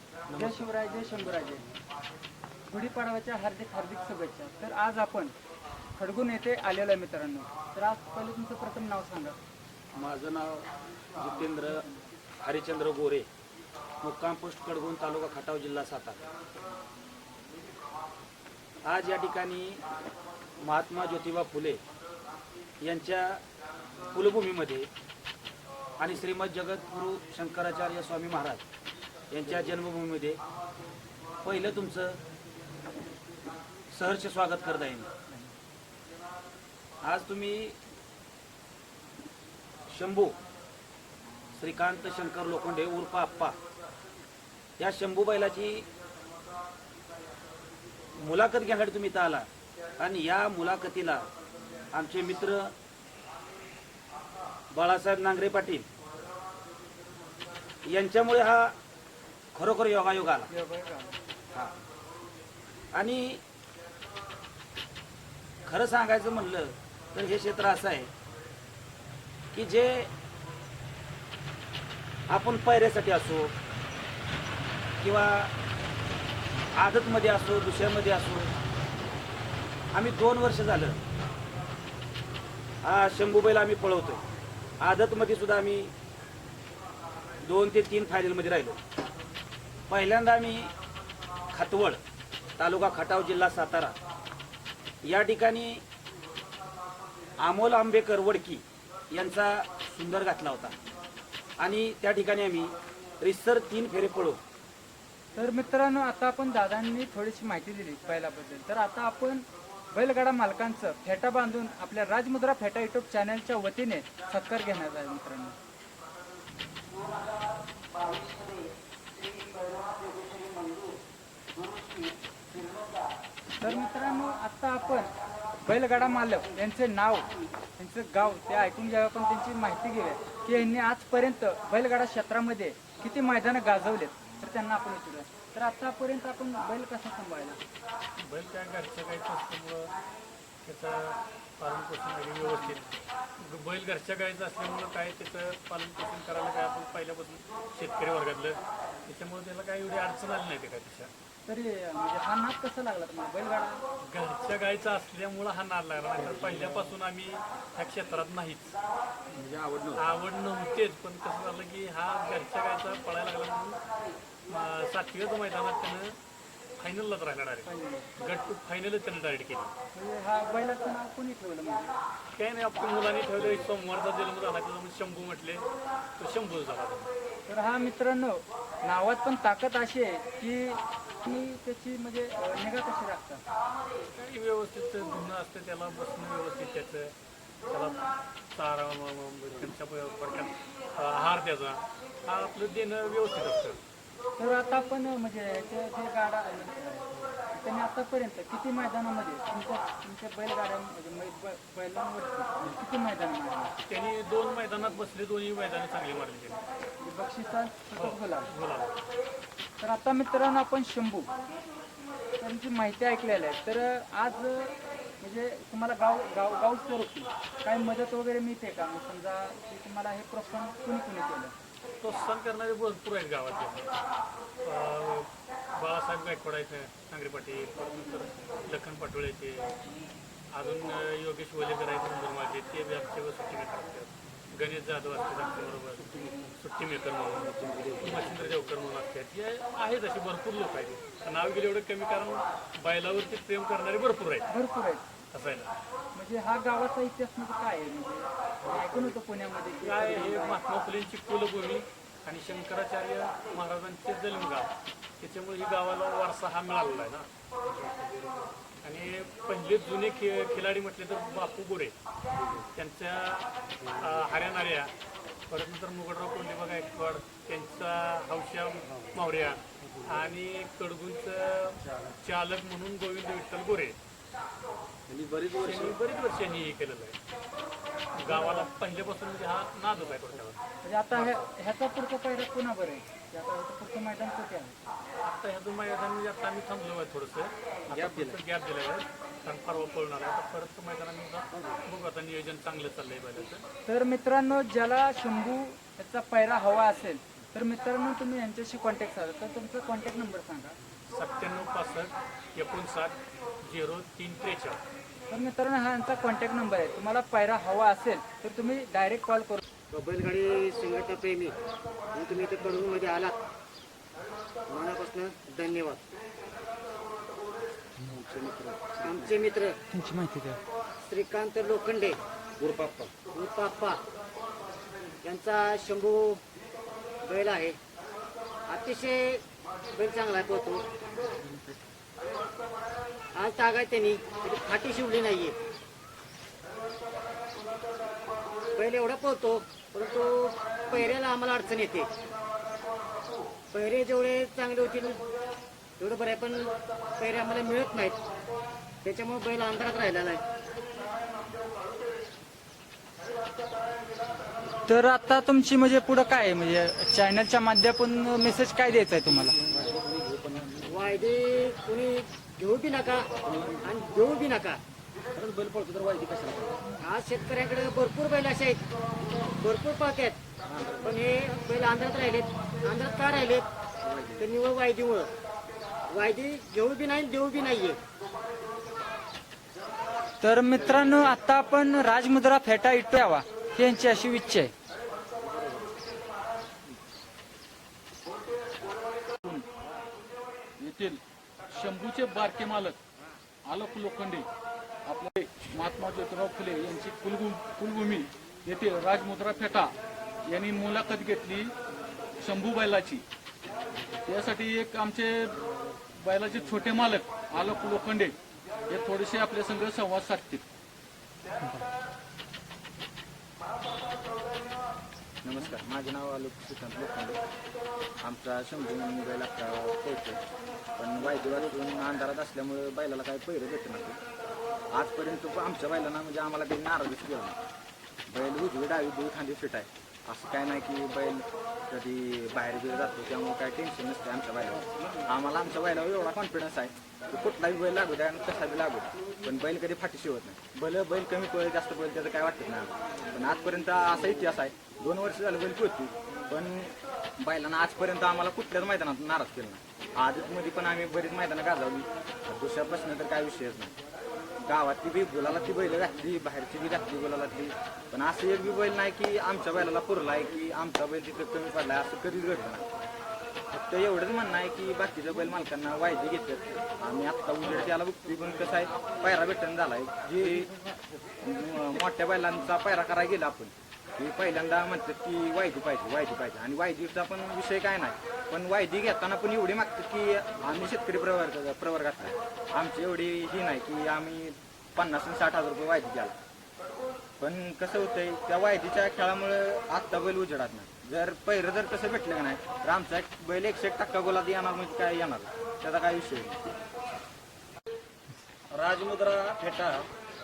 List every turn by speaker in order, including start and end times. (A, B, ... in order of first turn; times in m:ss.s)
0:00.3-0:00.6 A
0:00.4-0:01.6 B
0:02.7-0:05.3 B
0:06.0-0:09.4 B
0:09.9-0:11.8 A
0:11.5-0:12.0 B
0:12.4-0:13.3 A
0:14.0-0:16.2 A
0:18.8-0:19.8 A
0:20.6-0:21.8 A
0:22.8-0:23.4 A
0:24.1-0:24.9 A
0:26.0-0:28.6 A
0:29.3-0:30.4 A
0:31.4-0:32.2 A
0:33.9-0:35.1 A
0:37.0-0:37.8 A
0:39.9-0:40.4 A
0:41.5-0:43.6 A
0:44.8-0:45.8 A
0:48.2-0:49.5 A
0:50.0-0:51.3 A
0:51.9-0:52.7 A
0:54.7-0:55.9 A
0:57.8-0:58.8 A
0:59.5-1:00.5 A
1:00.5-1:01.2 B
1:02.9-1:03.4 A
1:05.6-1:08.1 A
1:09.5-1:10.1 A
1:12.3-1:13.5 A
1:15.0-1:15.5 A
1:16.8-1:18.5 A
1:19.9-1:21.0 A
1:22.8-1:24.2 A
1:24.8-1:25.9 A
1:27.4-1:28.8 A
1:29.9-1:30.7 A
1:31.5-1:32.0 A
1:32.6-1:33.9 A
1:35.0-1:35.8 A
1:37.4-1:40.8 A
1:41.6-1:44.4 A
1:45.3-1:55.6 B
2:03.6-2:05.1 B
2:05.6-2:17.6 B
2:18.2-2:19.9 C
2:20.6-2:22.8 C
2:22.4-2:22.8 B
2:23.4-2:31.1 C
2:31.4-2:33.8 B
2:34.1-2:38.8 C
2:36.2-2:36.9 A
2:39.3-2:40.1 A
2:40.0-2:43.8 C
2:44.5-2:46.2 C
2:46.8-2:49.7 C
2:47.6-2:48.1 B
2:49.9-2:51.9 B
2:52.3-2:55.6 C
2:56.2-2:57.1 C
2:57.5-3:03.4 B
3:04.1-3:07.1 C
3:07.7-3:13.8 C
3:14.4-3:23.7 B
3:23.9-3:26.6 C
3:27.0-3:28.5 B
3:28.0-3:29.0 C
3:29.8-3:31.3 B
3:32.4-3:41.5 B
3:42.0-3:44.0 C
3:44.6-3:49.8 C
3:50.5-4:04.5 C
3:57.4-3:58.6 A
4:04.5-4:05.0 B
4:05.3-4:05.7 C
4:06.1-4:10.6 B
4:09.8-4:17.3 C
4:18.8-4:21.9 C
4:22.5-4:24.9 C
4:25.5-4:34.0 C
4:35.1-4:35.9 A
4:35.5-4:37.2 C
4:38.2-4:40.6 C
4:38.3-4:38.7 B
4:40.8-4:44.8 B
4:41.1-4:41.4 C
4:45.2-4:53.6 C
4:47.9-4:48.4 A
4:51.5-4:51.8 A
4:53.8-5:00.8 B
5:01.1-5:04.8 C
5:05.3-5:09.6 B
5:09.9-5:11.6 D
5:12.1-5:13.4 D
5:14.7-5:16.0 D
5:18.1-5:19.4 A
5:19.0-5:19.8 D
5:19.9-5:20.6 B
5:21.0-5:22.2 D
5:22.6-5:23.1 A
5:23.2-5:24.0 D
5:25.2-5:26.4 D
5:27.2-5:27.8 D
5:28.7-5:30.8 D
5:33.3-5:35.6 D
5:38.8-5:42.1 D
5:43.7-5:45.2 D
5:46.0-5:48.2 D
5:49.0-5:50.4 D
5:54.8-5:59.6 B
5:59.5-6:01.0 A
6:00.9-6:03.3 D
6:03.4-6:03.9 A
6:03.8-6:04.8 D
6:05.3-6:06.8 A
6:07.0-6:08.8 D
6:09.6-6:10.4 D
6:10.7-6:11.1 A
6:11.0-6:13.7 D
6:14.0-6:14.4 A
6:14.4-6:15.3 D
6:16.1-6:18.0 D
6:20.4-6:24.7 B
6:29.4-6:29.7 E
6:30.8-6:33.0 E
6:33.6-6:34.5 E
6:35.0-6:39.9 E
6:40.5-6:41.7 E
6:42.4-6:43.2 E
6:44.2-6:45.6 E
6:46.1-6:48.4 E
6:48.9-6:50.6 E
6:55.4-6:57.4 F
6:58.2-7:00.4 F
7:01.0-7:04.2 F
7:04.9-7:07.6 F
7:08.3-7:33.9 F
7:34.6-7:42.9 F
7:43.7-7:50.7 F
7:51.4-8:06.3 F
8:07.4-8:16.6 F
8:18.7-8:20.1 A